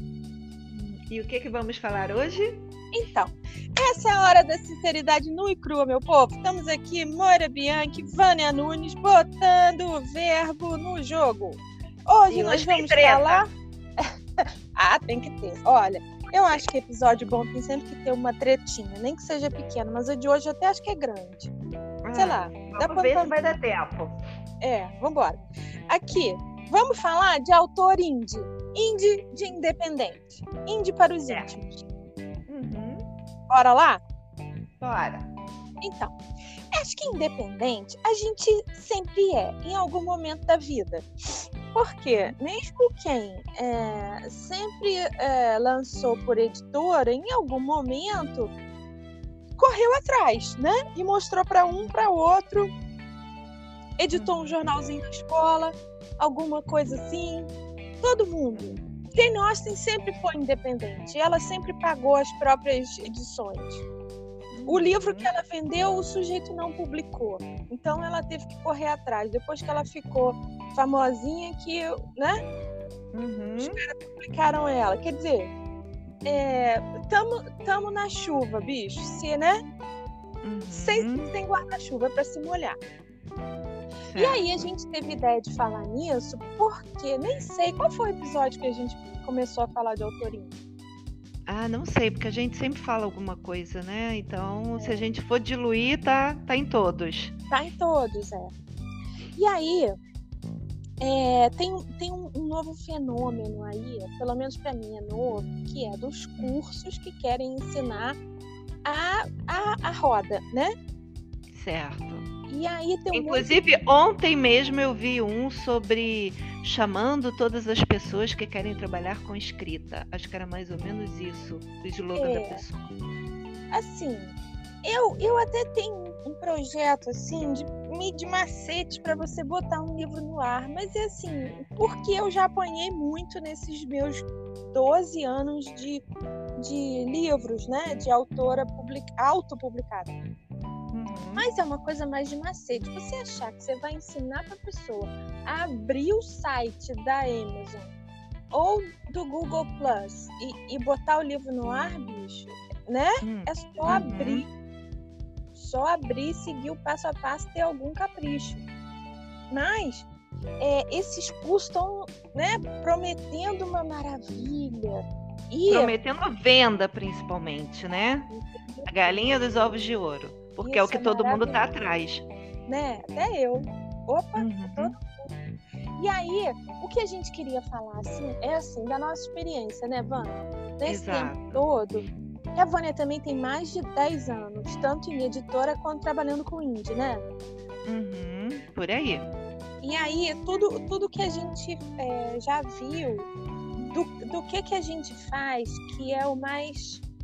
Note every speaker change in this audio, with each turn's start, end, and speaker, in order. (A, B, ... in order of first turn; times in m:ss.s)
0:00.7-0:02.6 A
0:02.9-0:13.5 B
0:12.3-0:13.4 A
0:14.1-0:21.5 B
0:22.0-0:24.2 A
0:22.2-0:23.4 B
0:24.6-0:31.9 B
0:32.5-0:33.0 A
0:33.5-0:34.0 B
0:34.8-0:35.3 A
0:35.8-0:36.2 B
0:36.7-0:41.1 B
0:41.7-0:48.5 B
0:42.1-0:42.3 A
0:49.6-0:52.7 B
0:51.7-0:52.0 A
0:54.0-1:03.8 B
0:54.1-0:54.7 A
1:04.5-1:05.3 A
1:04.7-1:12.4 B
1:13.1-1:13.8 A
1:13.6-1:15.5 B
1:16.2-1:19.6 B
1:20.4-1:21.3 A
1:20.7-1:22.8 B
1:24.1-1:24.7 A
1:24.2-1:30.5 B
1:31.5-1:37.3 A
1:34.8-1:35.0 B
1:37.5-1:38.5 B
1:39.4-1:40.0 B
1:41.0-1:48.2 B
1:48.8-1:50.7 B
1:51.5-1:52.3 A
1:52.5-1:53.6 B
1:53.1-2:02.9 A
2:02.2-2:02.6 B
2:03.7-2:16.0 B
2:16.6-2:20.2 B
2:20.9-2:21.5 A
2:21.4-2:27.9 B
2:28.5-2:34.5 B
2:33.2-2:34.5 A
2:35.6-2:38.6 B
2:39.5-2:40.1 B
2:40.6-2:45.9 B
2:45.7-2:48.3 A
2:48.3-2:49.3 B
2:48.9-2:52.2 A
2:50.6-2:51.6 B
2:52.7-2:55.3 B
2:54.4-2:55.0 A
2:56.0-3:07.2 B
3:00.9-3:01.7 A
3:07.9-3:09.3 A
3:09.8-3:13.3 B
3:13.9-3:17.0 B